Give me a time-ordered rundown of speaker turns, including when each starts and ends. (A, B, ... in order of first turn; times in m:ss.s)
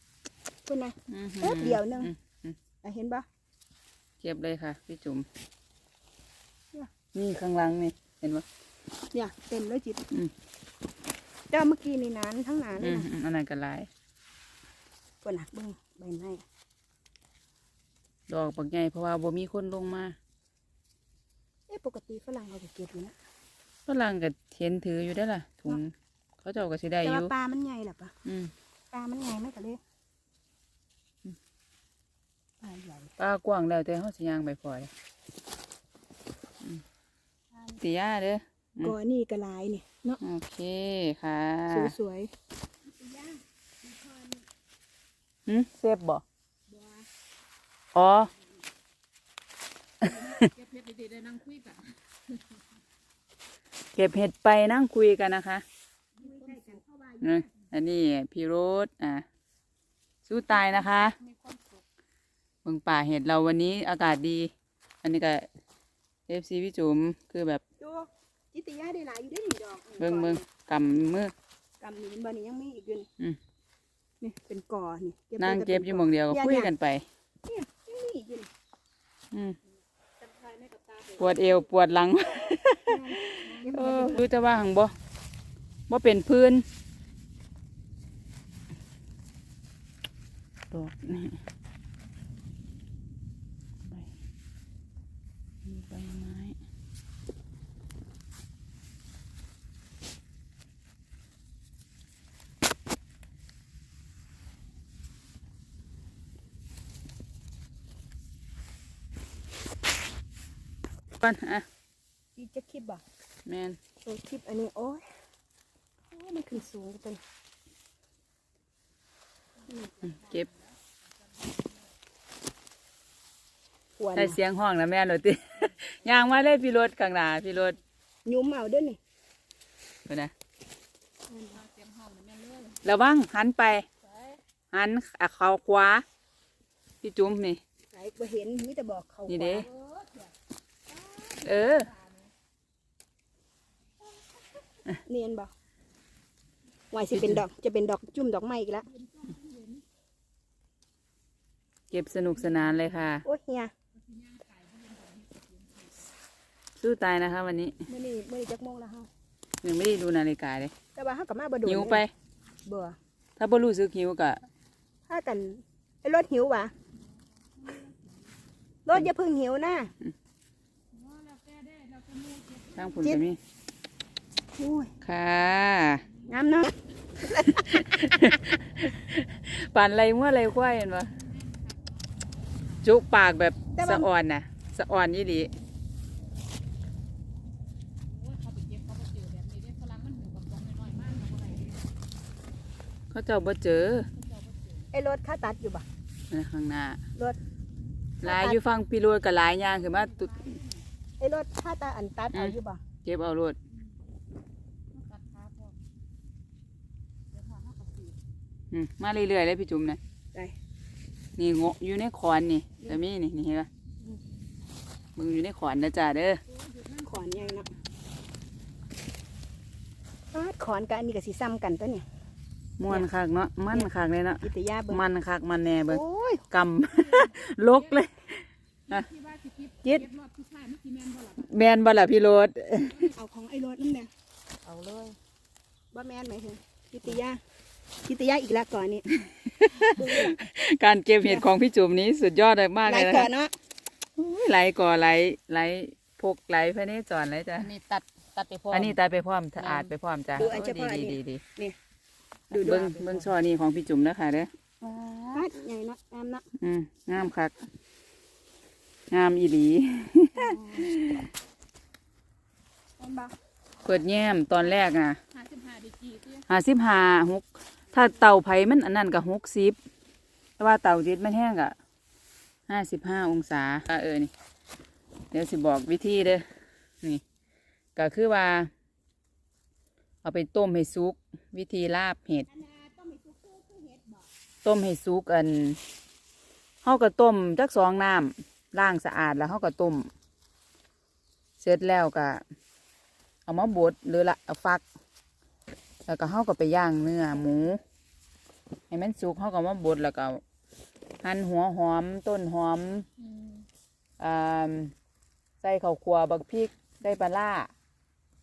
0:00.7-0:02.1 A
0:01.1-0:02.6 B
0:02.8-0:03.3 A
0:04.2-0:05.3 B
0:07.1-0:08.4 B
0:09.1-0:10.0 A
0:11.5-0:13.1 A
0:12.8-0:13.9 B
0:15.2-0:16.4 A
0:18.3-0:20.2 B
0:21.7-0:23.2 A
0:23.9-0:27.3 B
0:27.0-0:28.1 A
0:28.2-0:28.5 B
0:28.9-0:29.8 A
0:32.6-0:33.1 A
0:33.2-0:34.9 B
0:37.5-0:37.8 A
0:37.8-0:39.0 B
0:38.8-0:40.2 A
0:40.2-0:42.0 B
0:41.7-0:42.3 A
0:42.8-0:44.5 A
0:45.5-0:46.2 B
0:46.7-0:47.1 A
0:47.9-0:48.3 B
0:50.1-0:52.0 C
0:54.0-0:55.6 B
0:56.2-0:57.5 A
0:56.2-0:56.8 C
0:57.2-0:59.2 B
1:00.3-1:01.2 B
1:00.5-1:01.8 C
1:02.6-1:04.5 B
1:05.0-1:05.5 B
1:06.3-1:07.6 B
1:07.8-1:10.4 A
1:10.0-1:11.3 B
1:11.8-1:13.1 A
1:14.2-1:16.7 A
1:15.4-1:17.1 B
1:17.5-1:18.5 A
1:19.3-1:19.6 B
1:20.4-1:21.5 C
1:21.2-1:24.9 B
1:22.9-1:24.2 A
1:25.9-1:26.6 B
1:30.7-1:31.4 B
1:35.6-1:36.6 B
1:51.2-1:51.6 B
1:52.4-1:53.0 A
1:53.5-1:53.8 B
1:54.0-1:55.0 A
1:56.1-1:57.2 A
1:59.7-1:59.9 A
2:00.0-2:01.7 C
2:00.0-2:00.5 B
2:04.0-2:04.4 A
2:04.2-2:07.8 B
2:08.2-2:09.0 A
2:10.1-2:10.3 B
2:11.3-2:11.6 A
2:11.5-2:12.8 C
2:12.8-2:13.9 B
2:14.1-2:14.4 C
2:14.7-2:16.0 B
2:17.0-2:17.6 B
2:17.9-2:19.7 A
2:19.3-2:19.7 B
2:19.7-2:20.3 C
2:20.9-2:22.3 C
2:21.4-2:21.9 B
2:25.1-2:25.5 A
2:26.9-2:28.9 A
2:27.1-2:27.4 B
2:28.9-2:29.8 C
2:31.9-2:33.2 B
2:32.4-2:33.0 C
2:33.2-2:33.7 A
2:34.0-2:36.1 C
2:36.8-2:37.8 B
2:37.9-2:39.1 A
2:39.6-2:40.7 B
2:41.0-2:42.0 A
2:41.6-2:42.1 B
2:42.7-2:43.0 A
2:43.4-2:44.4 B
2:45.1-2:46.7 A
2:47.6-2:48.3 C
2:48.9-2:49.9 A
2:50.9-2:53.2 C
2:52.8-2:53.4 B
2:54.6-2:54.9 A
2:55.0-2:56.1 B
2:56.2-2:58.2 A
2:57.6-3:01.2 B
3:01.1-3:02.0 C
3:02.8-3:05.5 B
3:03.8-3:04.1 A
3:08.1-3:11.8 C
3:13.1-3:14.1 B
3:14.2-3:14.8 C
3:14.9-3:15.8 A
3:16.3-3:17.0 B
3:18.2-3:20.6 B
3:18.2-3:18.6 A
3:20.2-3:22.8 A
3:22.3-3:23.6 B
3:24.9-3:25.8 C
3:27.3-3:28.2 C
3:28.7-3:30.0 B
3:31.4-3:33.7 B
3:35.2-3:36.4 B
3:36.5-3:37.8 C
3:37.0-3:37.7 A
3:40.3-3:42.0 A
3:42.8-3:49.1 B
3:44.4-3:45.0 A
3:45.9-3:46.4 A
3:47.0-3:48.0 C
3:48.9-3:51.5 C
3:51.4-3:53.1 B
3:52.9-3:54.1 A
3:54.6-3:55.2 C
3:55.9-3:57.4 A
3:58.0-3:59.1 A
3:59.1-4:03.3 B
4:00.0-4:00.4 A
4:02.9-4:03.5 A
4:04.2-4:07.7 B
4:07.6-4:09.0 C
4:08.7-4:11.4 B
4:09.6-4:09.9 C
4:10.4-4:11.8 A
4:12.5-4:13.3 A
4:12.5-4:15.5 B
4:15.3-4:16.4 A
4:16.6-4:17.6 B
4:19.1-4:21.3 B
4:23.0-4:23.3 A
4:23.8-4:25.2 B
4:25.3-4:26.4 C
4:26.5-4:29.8 B
4:30.6-4:31.8 B
4:32.7-4:34.3 B
4:35.3-4:36.5 B
4:38.0-4:38.7 B
4:40.2-4:42.5 B
4:42.5-4:44.3 A
4:44.6-4:45.8 B
4:46.8-4:50.1 B
4:51.6-4:52.4 B
4:53.5-4:54.8 B
4:56.1-4:57.8 B
4:58.9-5:00.4 B
5:01.2-5:03.1 B
5:03.2-5:03.7 C
5:04.2-5:04.9 B
5:05.6-5:07.7 B